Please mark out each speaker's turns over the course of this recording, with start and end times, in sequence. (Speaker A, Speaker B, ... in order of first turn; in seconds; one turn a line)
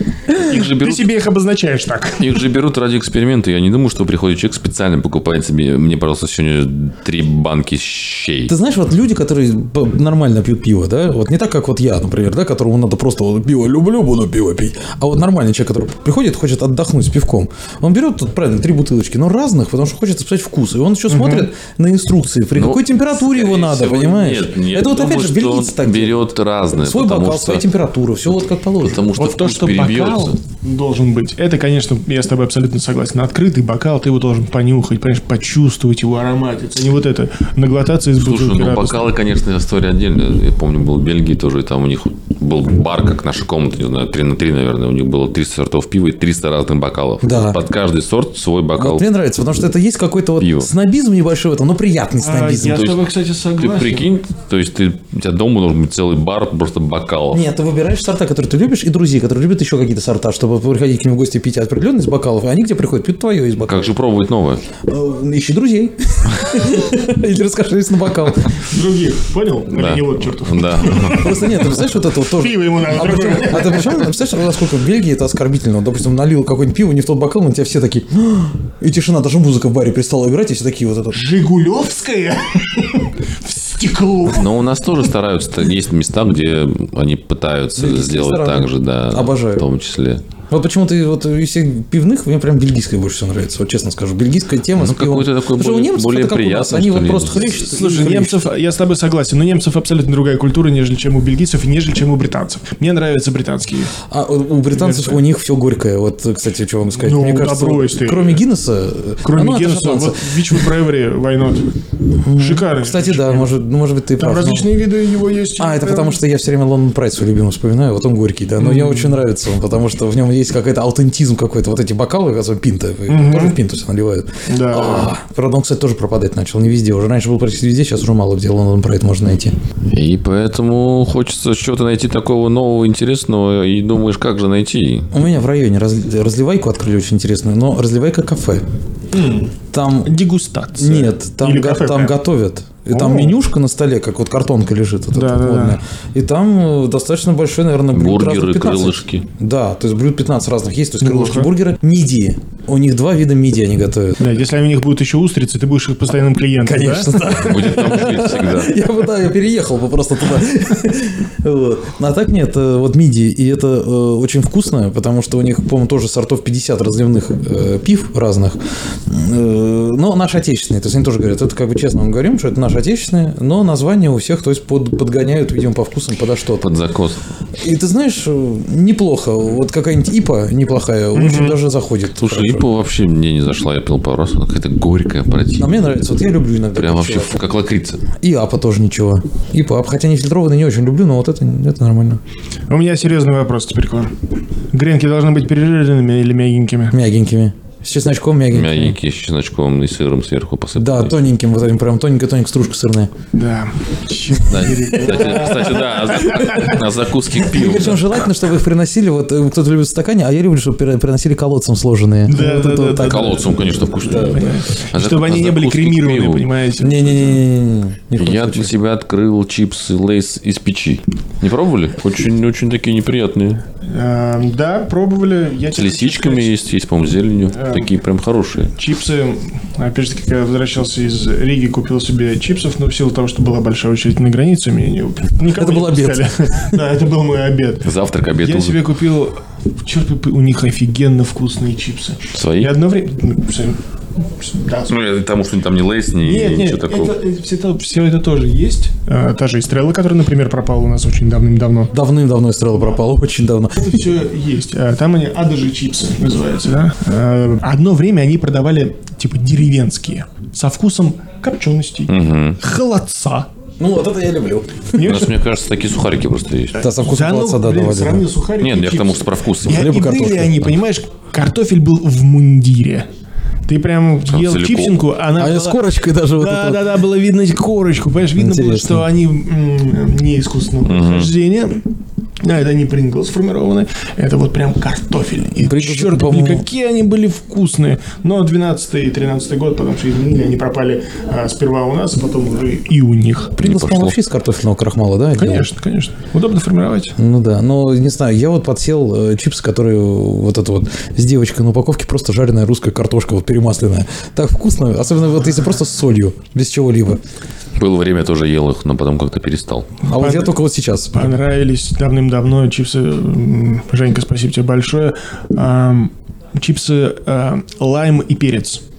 Speaker A: 0.3-2.3
Speaker B: 0.3-1.1
Speaker B: 2.2-8.5
Speaker C: 8.5-26.2
Speaker A: 21.1-21.5
Speaker B: 22.5-27.6
Speaker C: 26.8-29.0
Speaker B: 28.8-30.4
Speaker A: 29.1-39.1
Speaker B: 38.2-49.0
Speaker C: 47.2-47.6
Speaker C: 48.8-52.9
Speaker B: 50.4-50.7
Speaker A: 52.2-54.1
Speaker B: 52.7-57.4
Speaker C: 57.3-63.9
Speaker B: 63.7-64.6
Speaker C: 64.9-68.6
Speaker A: 68.6-71.2
Speaker B: 69.7-71.4
Speaker C: 70.8-81.2
Speaker A: 72.3-74.1
Speaker A: 81.1-84.5
Speaker B: 84.3-90.2
Speaker C: 87.7-89.6
Speaker C: 90.5-98.4
Speaker B: 94.8-97.7
Speaker A: 97.5-103.9
Speaker C: 104.1-110.6
Speaker A: 104.8-105.2
Speaker A: 107.0-108.4
Speaker A: 109.2-111.7
Speaker C: 112.2-114.8
Speaker A: 112.4-113.5
Speaker A: 114.2-116.2
Speaker C: 115.6-129.5
Speaker A: 118.6-119.2
Speaker A: 123.1-123.5
Speaker A: 124.5-125.1
Speaker B: 129.9-135.1
Speaker C: 135.1-138.6
Speaker A: 139.1-139.5
Speaker C: 139.7-140.1
Speaker A: 140.0-142.2
Speaker C: 140.8-154.2
Speaker A: 142.9-143.3
Speaker A: 145.1-145.8
Speaker B: 147.9-149.2
Speaker A: 151.0-151.5
Speaker A: 154.2-157.1
Speaker C: 156.6-176.7
Speaker B: 157.2-158.8
Speaker B: 176.6-177.2
Speaker C: 177.6-182.7
Speaker A: 181.1-181.6
Speaker B: 182.2-185.9
Speaker C: 185.6-187.4
Speaker B: 186.7-188.0
Speaker C: 188.2-192.2
Speaker A: 192.7-194.1
Speaker A: 194.7-196.9
Speaker C: 196.9-198.9
Speaker B: 198.5-201.2
Speaker C: 200.8-203.1
Speaker A: 203.3-206.8
Speaker B: 204.5-208.2
Speaker C: 207.4-213.4
Speaker A: 212.3-217.4
Speaker B: 213.0-216.5
Speaker C: 216.8-218.7
Speaker B: 218.2-223.6
Speaker A: 223.8-226.5
Speaker B: 225.7-228.7
Speaker A: 227.5-227.9
Speaker A: 228.8-237.9
Speaker C: 235.5-236.8
Speaker B: 237.8-238.8
Speaker A: 238.4-244.9
Speaker B: 242.3-242.7
Speaker B: 244.9-247.1
Speaker A: 246.2-251.9
Speaker C: 251.9-253.9
Speaker A: 253.8-263.5
Speaker B: 262.1-262.6
Speaker C: 263.8-265.0
Speaker A: 264.9-265.3
Speaker B: 265.0-266.8
Speaker A: 266.8-273.1
Speaker C: 266.8-268.2
Speaker B: 268.6-269.9
Speaker C: 269.7-270.7
Speaker A: 273.7-281.8
Speaker B: 274.3-275.0
Speaker C: 275.4-276.9
Speaker C: 278.4-279.1
Speaker B: 280.8-281.3
Speaker A: 282.4-293.6
Speaker C: 285.6-286.6
Speaker C: 293.6-295.6
Speaker B: 293.6-294.2
Speaker A: 295.4-297.1
Speaker C: 297.1-307.2
Speaker B: 307.8-309.9
Speaker C: 310.1-311.2
Speaker A: 310.1-310.6
Speaker A: 311.1-318.8